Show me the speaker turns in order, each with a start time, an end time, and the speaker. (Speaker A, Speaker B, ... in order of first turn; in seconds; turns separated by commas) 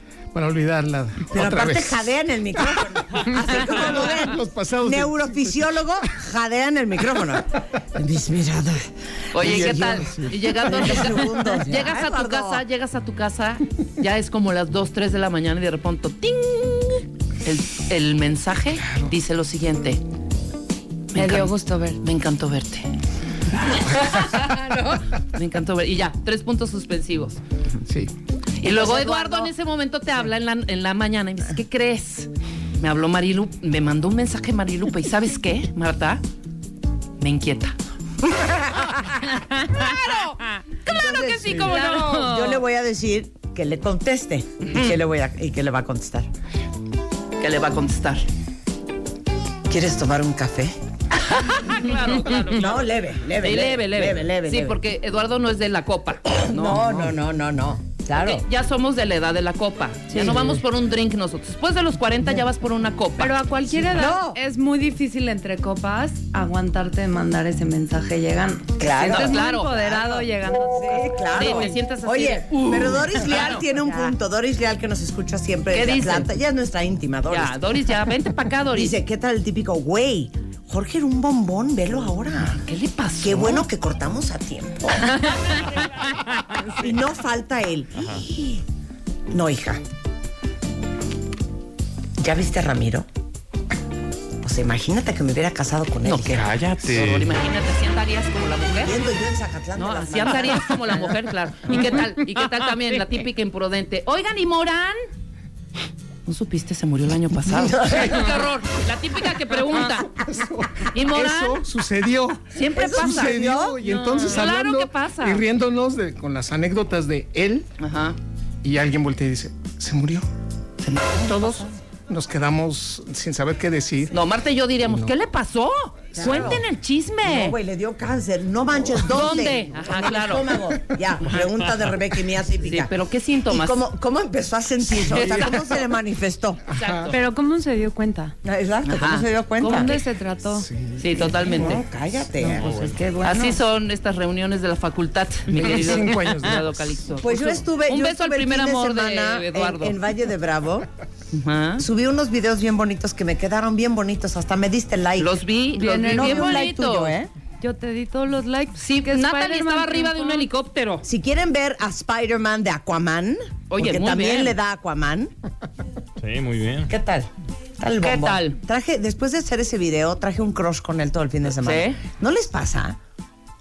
Speaker A: 0.3-5.7, Speaker B: 1.3-10.0, Speaker C: 9.3-20.0, Speaker A: 9.4-11.1, Speaker B: 10.6-12.6, Speaker C: 21.1-22.9, Speaker D: 21.1-22.0, Speaker C: 23.6-27.4, Speaker A: 27.9-28.1, Speaker C: 28.6-36.2, Speaker B: 28.6-29.5, Speaker C: 37.2-37.8, Speaker B: 38.2-39.0, Speaker C: 39.6-42.4, Speaker B: 40.9-46.3, Speaker D: 41.6-42.5, Speaker C: 44.6-44.9, Speaker C: 47.4-48.2, Speaker B: 49.7-50.8, Speaker C: 51.2-52.9, Speaker B: 52.5-54.8, Speaker C: 53.4-57.1, Speaker B: 56.4-58.4, Speaker C: 58.1-64.2, Speaker B: 60.1-60.6, Speaker D: 63.2-71.8, Speaker B: 64.0-64.4, Speaker B: 68.8-77.6, Speaker C: 68.8-69.8, Speaker C: 71.3-74.1, Speaker C: 75.7-76.3, Speaker C: 77.3-78.9, Speaker B: 78.7-82.6, Speaker C: 82.5-83.6, Speaker B: 83.2-85.3, Speaker B: 86.6-88.6, Speaker B: 89.3-89.8, Speaker B: 92.2-93.1, Speaker B: 94.4-96.5, Speaker C: 96.0-99.0, Speaker E: 96.3-97.3, Speaker B: 98.8-100.8, Speaker C: 99.8-105.0, Speaker C: 106.2-110.1, Speaker B: 107.5-108.3, Speaker A: 109.7-117.7, Speaker C: 110.9-111.6, Speaker C: 112.5-115.4, Speaker B: 112.8-113.8, Speaker C: 117.8-118.2, Speaker A: 118.6-120.3, Speaker C: 121.0-121.7, Speaker A: 121.2-124.2, Speaker C: 124.1-127.5, Speaker A: 124.8-125.1, Speaker B: 126.1-126.6, Speaker B: 127.2-132.9, Speaker C: 129.0-130.5, Speaker C: 132.6-133.9, Speaker B: 133.5-136.6, Speaker C: 134.9-135.8, Speaker C: 136.7-137.2, Speaker A: 136.8-137.1, Speaker D: 137.1-138.3, Speaker B: 138.4-140.0, Speaker C: 138.9-140.0, Speaker D: 139.7-140.7, Speaker A: 140.5-141.0, Speaker C: 141.0-141.8, Speaker B: 141.2-142.7, Speaker E: 142.6-143.0, Speaker D: 142.6-143.6, Speaker C: 143.2-149.9, Speaker A: 145.5-146.9, Speaker B: 147.2-150.9, Speaker C: 151.3-151.9, Speaker B: 151.8-155.4, Speaker C: 155.2-157.2, Speaker D: 155.7-156.6, Speaker B: 156.1-157.3, Speaker D: 157.6-160.5, Speaker C: 158.8-161.0, Speaker B: 161.0-165.3, Speaker C: 163.7-164.6, Speaker E: 166.2-166.9, Speaker B: 166.9-167.3, Speaker B: 167.8-173.0, Speaker C: 168.0-168.6, Speaker C: 171.6-172.0